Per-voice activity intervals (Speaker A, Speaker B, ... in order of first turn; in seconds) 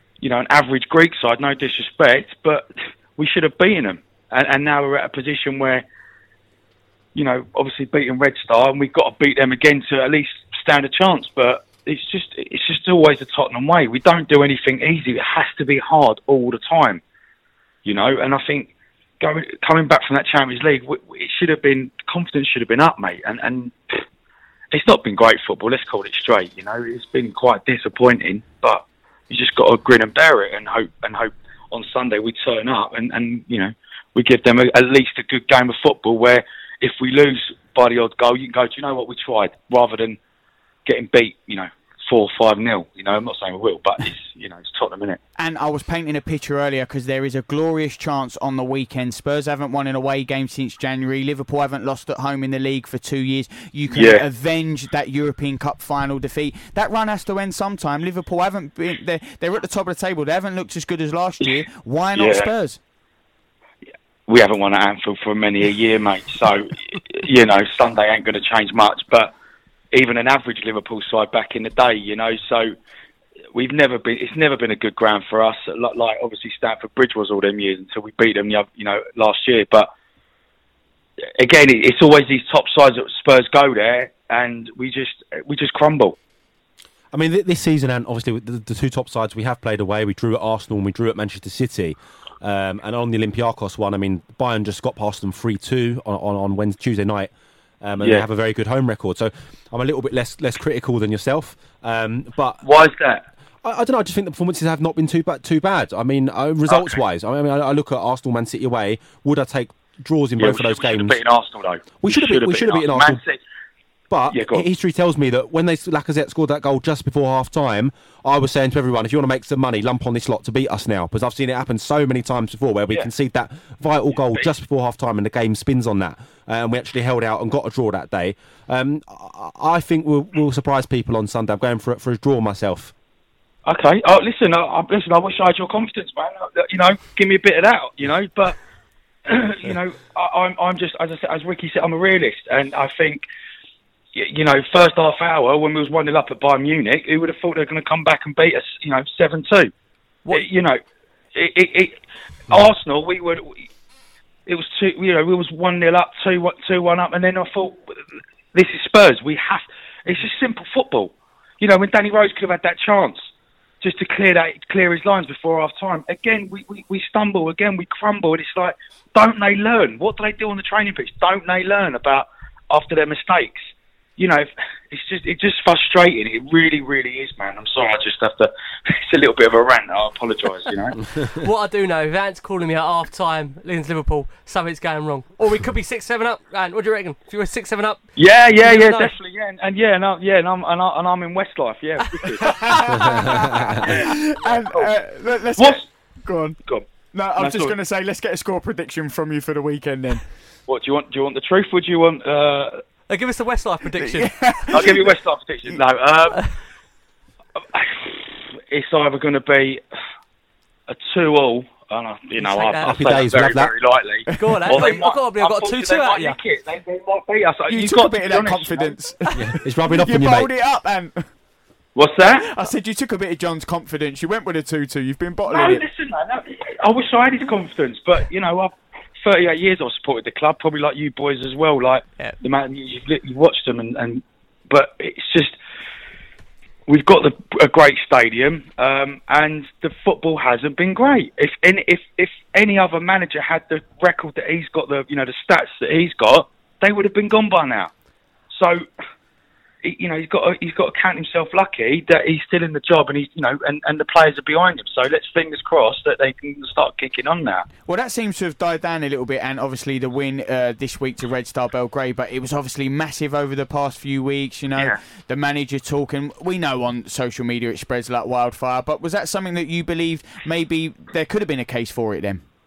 Speaker A: 0.2-5.8, 7.1-17.0, 17.8-23.9, 24.7-40.2, 40.9-45.2, 53.9-54.2, 62.1-62.5, 64.3-69.3, 69.9-72.7, 73.5-79.9, 81.4-86.2, 98.0-98.2, 102.6-103.2, 106.7-107.0, 110.4-113.4, 114.3-114.7, 124.2-124.5, 133.6-138.6, 139.2-143.2, 144.1-149.7, 150.3-150.8, 151.3-152.0, 152.5-153.6, 154.4-157.8, 158.5-163.3, 163.8-173.6, 174.2-181.0, 188.2-192.6, 195.6-195.9, 196.6-197.7, 200.7-202.8, 204.7-206.4, 207.7-209.8, 210.9-219.0, 221.9-222.5, 225.5-235.6, 236.9-247.9, 248.5-248.8, 249.8-257.7
Speaker B: 45.4-62.8, 192.4-193.3, 193.8-196.6, 197.1-200.2, 204.0-205.1, 214.3-214.6, 217.7-221.3, 222.2-225.8, 257.9-272.4
Speaker C: 87.1-97.3, 97.8-102.7, 103.6-111.2, 112.0-113.2, 114.1-132.9, 212.8-213.8, 219.3-220.5
Speaker D: 181.3-188.0, 188.6-189.2, 192.0-192.3, 203.1-205.0, 206.3-206.6, 212.4-213.0, 214.3-216.4, 219.2-219.5